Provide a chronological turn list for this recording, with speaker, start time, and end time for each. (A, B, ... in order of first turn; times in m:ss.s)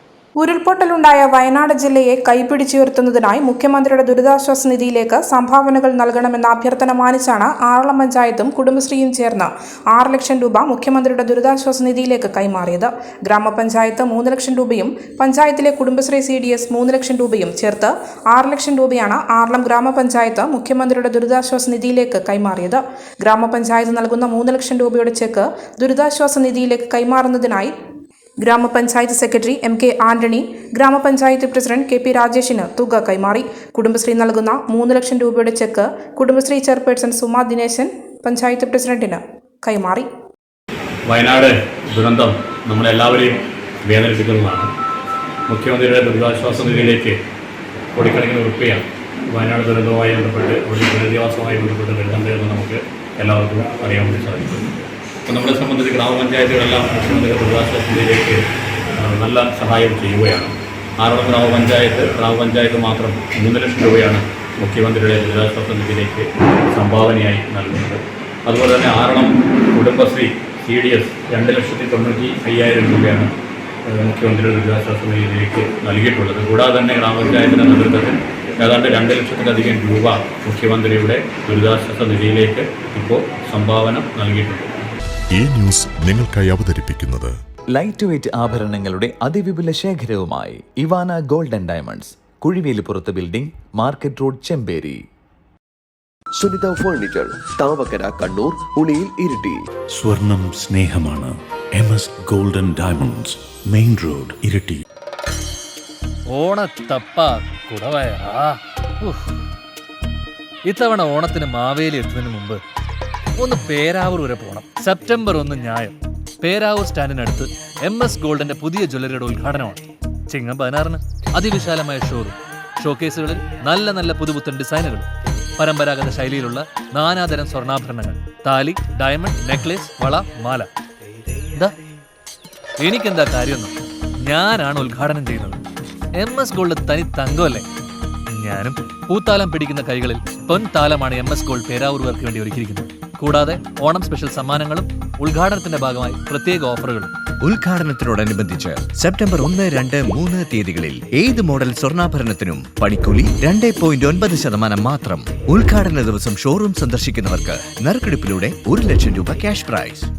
0:00.4-0:27.7 A
0:28.4-0:40.1 A
0:41.1-0:44.7 B
0:45.5-0:47.2 B
0:47.9-0:54.7 B
0:55.2-0:58.4 B
0:59.0-1:13.3 B
1:13.8-1:24.7 B
1:25.3-1:27.3 C
1:27.7-1:35.0 D
1:36.4-1:39.6 E
1:40.0-1:44.8 F
1:46.3-1:49.3 G
1:50.7-1:52.6 G
1:53.4-2:10.7 G
2:12.8-2:15.6 G
2:16.2-2:17.6 G
2:18.3-2:27.1 G
2:27.4-2:40.1 H